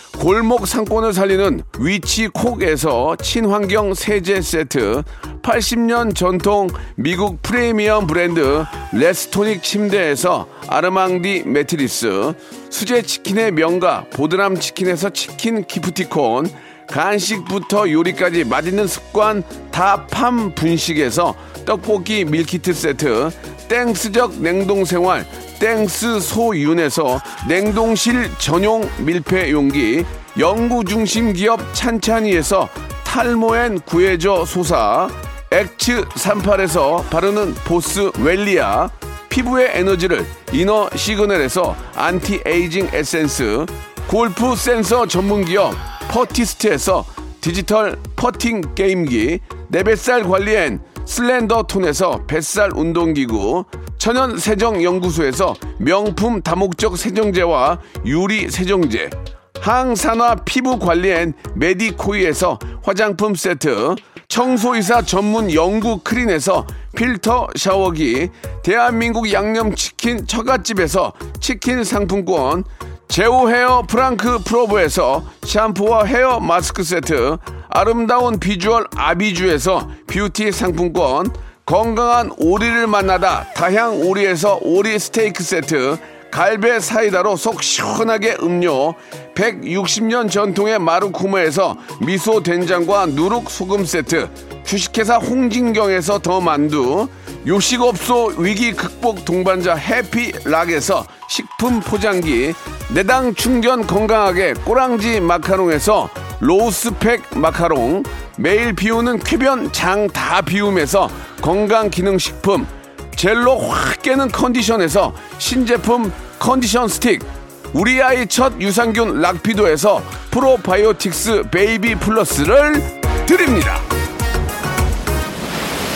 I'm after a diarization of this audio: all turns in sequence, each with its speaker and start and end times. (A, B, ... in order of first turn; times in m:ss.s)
0:00.2-2:03.9 A